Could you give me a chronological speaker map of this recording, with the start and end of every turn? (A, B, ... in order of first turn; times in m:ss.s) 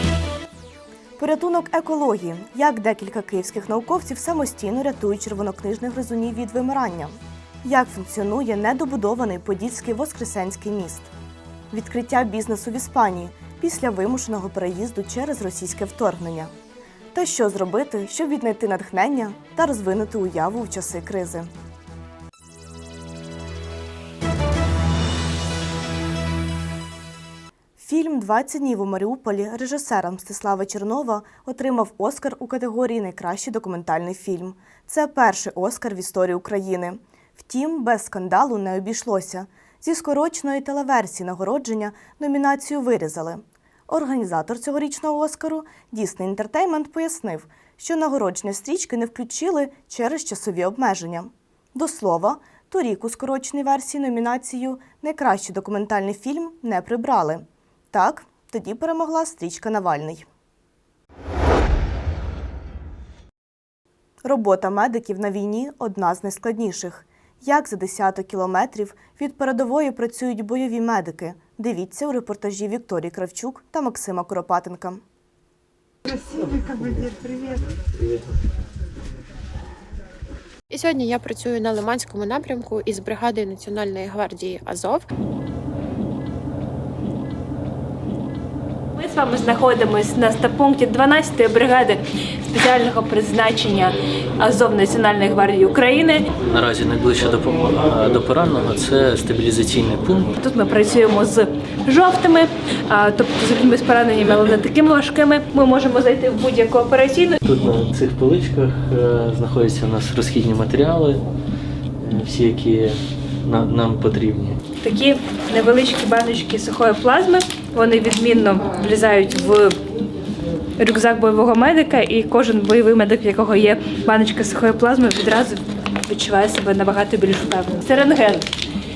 0:01.2-0:11.1 A
0:11.7-0:16.5 A
0:17.1-0:21.5 A
0:27.8-1:00.3 A
1:04.2-1:15.0 A
1:20.7-1:25.1 B
1:29.0-1:36.2 C
1:36.5-1:40.3 D
1:40.4-1:47.4 C
1:47.4-1:51.2 D
1:52.0-1:54.6 D
1:54.8-1:59.8 C
2:00.8-2:08.5 C